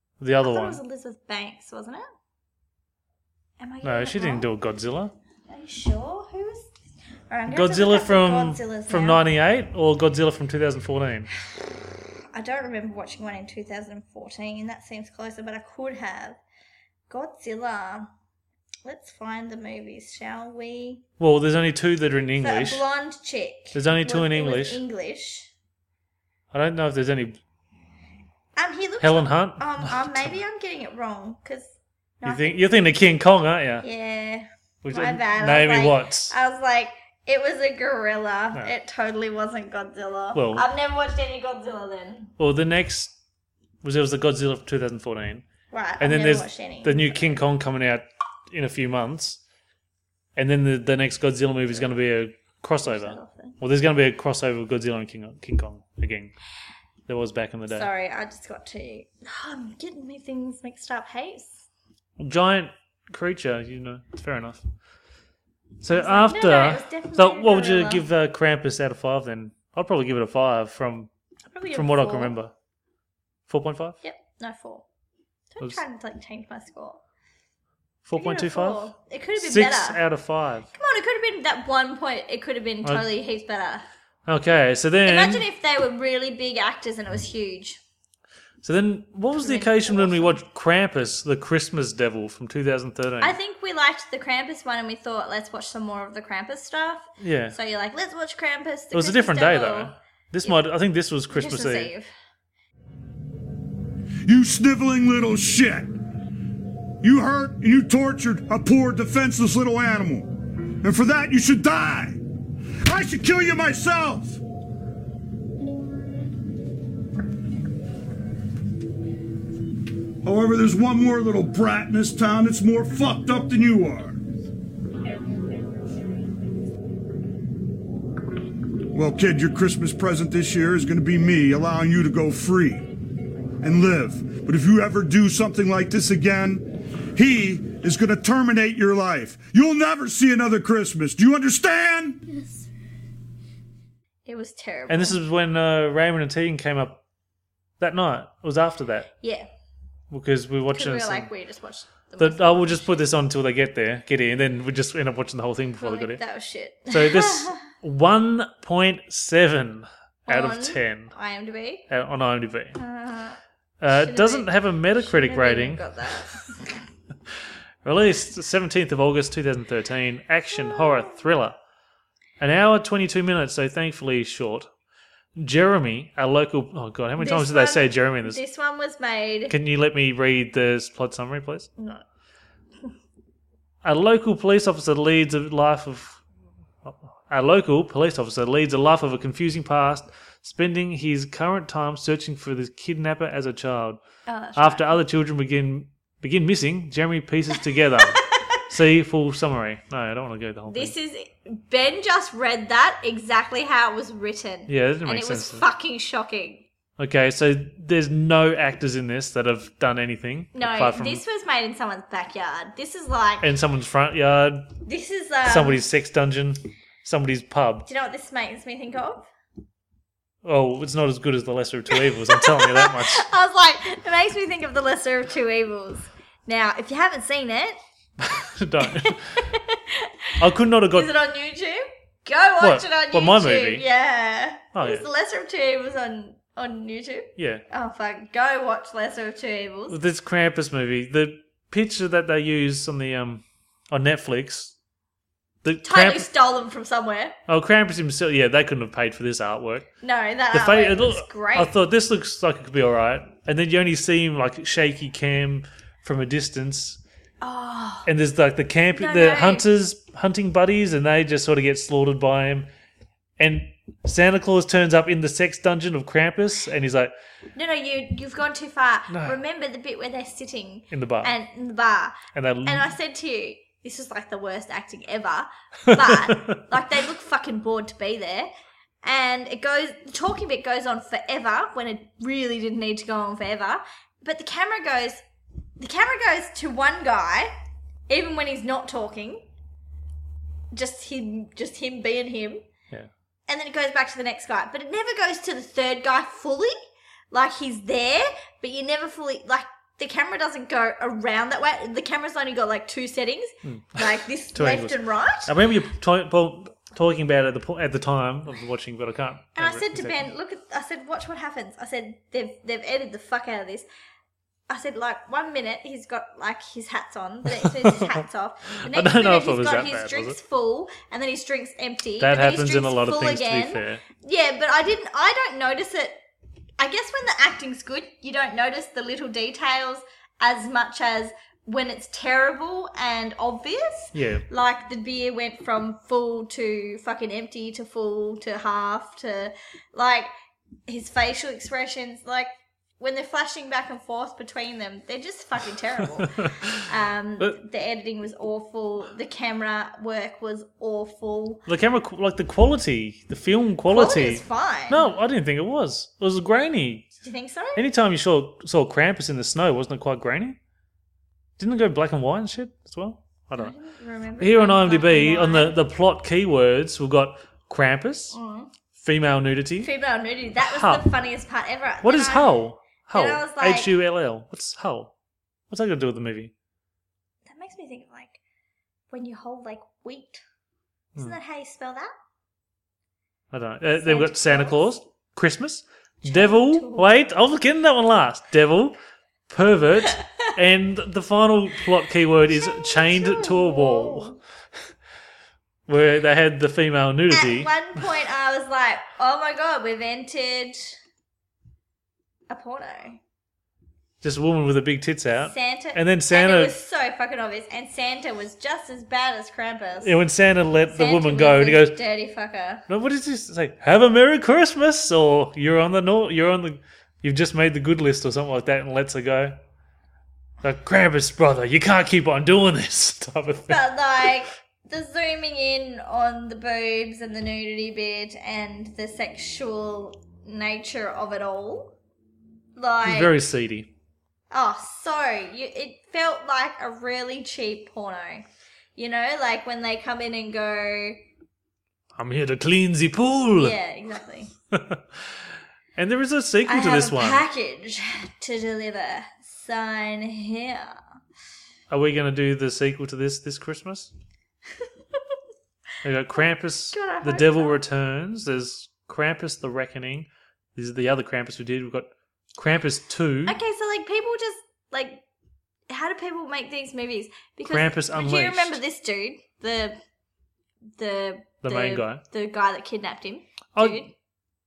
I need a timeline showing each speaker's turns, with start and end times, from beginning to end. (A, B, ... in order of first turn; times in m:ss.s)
0:00.2-0:00.8 A
0:00.4-0:02.0 B
0:03.6-0:04.5 B
0:03.8-0:05.1 A
0:05.5-0:06.7 B
0:07.3-0:09.2 B
0:07.5-0:11.3 A
0:12.3-0:16.4 B
0:17.1-0:18.1 B
0:18.8-0:21.0 B
0:21.2-0:22.8 A
0:22.4-0:25.5 B
0:23.7-0:24.8 A
0:26.5-0:27.4 A
0:28.6-0:32.6 B
0:29.0-0:30.4 A
0:32.2-0:33.9 A
0:33.8-0:42.3 B
0:34.8-0:36.3 A
0:40.4-0:40.6 A
0:42.4-0:43.1 A
0:43.8-0:45.4 A
0:45.7-0:47.4 B
0:46.0-0:49.4 A
0:50.4-0:56.3 A
0:52.8-0:53.6 B
0:57.1-0:57.9 A
0:57.7-1:01.6 B
1:02.2-1:04.6 A
1:05.8-1:11.1 A
1:05.9-1:08.0 B
1:11.5-1:12.3 B
1:11.7-1:12.5 A
1:13.5-1:14.0 A
1:14.0-1:14.8 B
1:15.6-1:17.0 B
1:18.0-1:20.7 A
1:18.2-1:20.0 B
1:20.7-1:23.8 B
1:24.2-1:25.4 A
1:25.1-1:27.8 B
1:28.6-1:33.4 A
1:29.4-1:30.4 B
1:33.2-1:40.6 B
1:37.2-1:37.6 A
1:38.9-1:41.9 A
1:41.3-1:42.1 B
1:44.2-1:46.0 C
1:47.0-1:52.2 C
1:52.8-1:54.4 C
2:00.2-2:04.2 C
2:08.9-2:13.0 C
2:13.6-2:22.2 C
2:24.3-2:25.2 B
2:24.9-2:27.0 A
2:27.8-2:29.1 A
2:29.2-2:29.5 B
2:30.1-2:31.3 A
2:30.7-2:32.8 B
2:32.2-2:36.2 A
2:35.8-2:37.6 B
2:36.9-2:41.1 A
2:40.3-2:41.9 B
2:41.9-2:42.8 A
2:42.7-2:43.4 B
2:43.8-2:46.5 A
2:43.9-2:46.6 B
2:47.8-2:51.6 A
2:50.5-2:51.2 B
2:52.4-2:54.7 A
2:55.4-2:58.4 A
2:57.2-2:59.6 B
2:59.5-3:01.7 A
3:01.8-3:02.0 B
3:03.8-3:06.2 A
3:06.8-3:14.0 A
3:14.3-3:15.0 B
3:14.6-3:20.9 A
3:18.0-3:18.4 B
3:20.7-3:26.6 B
3:24.7-3:25.6 A
3:27.0-3:31.2 A
3:30.6-3:33.5 B
3:33.4-3:34.7 A
3:34.8-3:35.8 B
3:35.4-3:37.9 A
3:37.9-3:39.3 B
3:40.4-3:43.2 A
3:41.9-3:47.8 B
3:48.2-3:49.4 A
3:48.8-3:50.1 B
3:50.4-3:51.1 A
3:50.9-4:00.0 B
3:52.6-3:53.9 A
3:54.7-3:55.0 A
3:57.4-3:57.6 A
3:59.9-4:04.7 A
4:05.6-4:06.3 A
4:05.8-4:07.4 B
4:07.5-4:09.9 A
4:10.0-4:11.7 B
4:10.5-4:17.0 A
4:17.4-4:18.1 B
4:18.0-4:22.7 A
4:19.0-4:19.6 B
4:23.4-4:27.1 A
4:27.6-4:38.5 B
4:29.1-4:29.4 A
4:30.9-4:31.3 A
4:32.3-4:32.9 A
4:35.9-4:36.6 A
4:39.0-4:45.2 B
4:45.8-4:47.5 B
4:48.1-4:49.5 B
4:50.7-4:52.6 B
4:53.5-4:56.7 B
4:57.3-5:05.5 B
5:03.6-5:10.3 A
5:09.6-5:13.9 B
5:14.7-5:26.2 B
5:17.6-5:18.2 A
5:18.9-5:20.4 A
5:22.2-5:24.0 A
5:26.8-5:40.3 B
5:34.1-5:34.4 A
5:40.9-5:51.6 B
5:46.3-5:46.8 A
5:51.7-5:57.1 A
5:53.9-5:55.2 B
5:57.2-5:57.8 B
5:57.8-6:00.6 A
6:01.6-6:03.7 A
6:03.6-6:05.8 B
6:04.4-6:08.4 A
6:08.3-6:08.7 B
6:09.0-6:09.9 A
6:09.8-6:12.6 B
6:10.6-6:11.1 A
6:12.0-6:15.1 A
6:13.1-6:13.9 B
6:15.7-6:16.5 A
6:17.4-6:18.4 B
6:19.1-6:20.4 B
6:21.2-6:22.1 B
6:23.5-6:29.0 A
6:24.0-6:24.8 B
6:26.2-6:27.1 B
6:29.5-6:34.4 A
6:32.5-6:34.4 B
6:35.9-6:37.7 A
6:37.3-6:41.0 B
6:42.5-6:43.2 B
6:44.2-6:46.7 A
6:45.4-6:50.2 B
6:50.0-6:52.0 A
6:50.9-6:52.8 B
6:52.9-6:59.6 A
7:00.6-7:03.8 A
7:03.7-7:12.0 B
7:12.8-7:13.3 B
7:13.0-7:13.9 A
7:14.5-7:18.4 B
7:19.0-7:21.2 B
7:22.2-7:23.8 A
7:23.6-7:24.5 B
7:24.7-7:25.2 A
7:26.0-7:27.4 A
7:26.6-7:31.0 B
7:31.9-7:34.1 A
7:36.0-7:43.6 A
7:36.9-7:37.8 B
7:43.4-7:45.2 B
7:45.9-7:50.0 B
7:47.7-7:48.8 A
7:51.0-7:54.1 B
7:51.6-7:52.2 A
7:53.7-7:54.0 A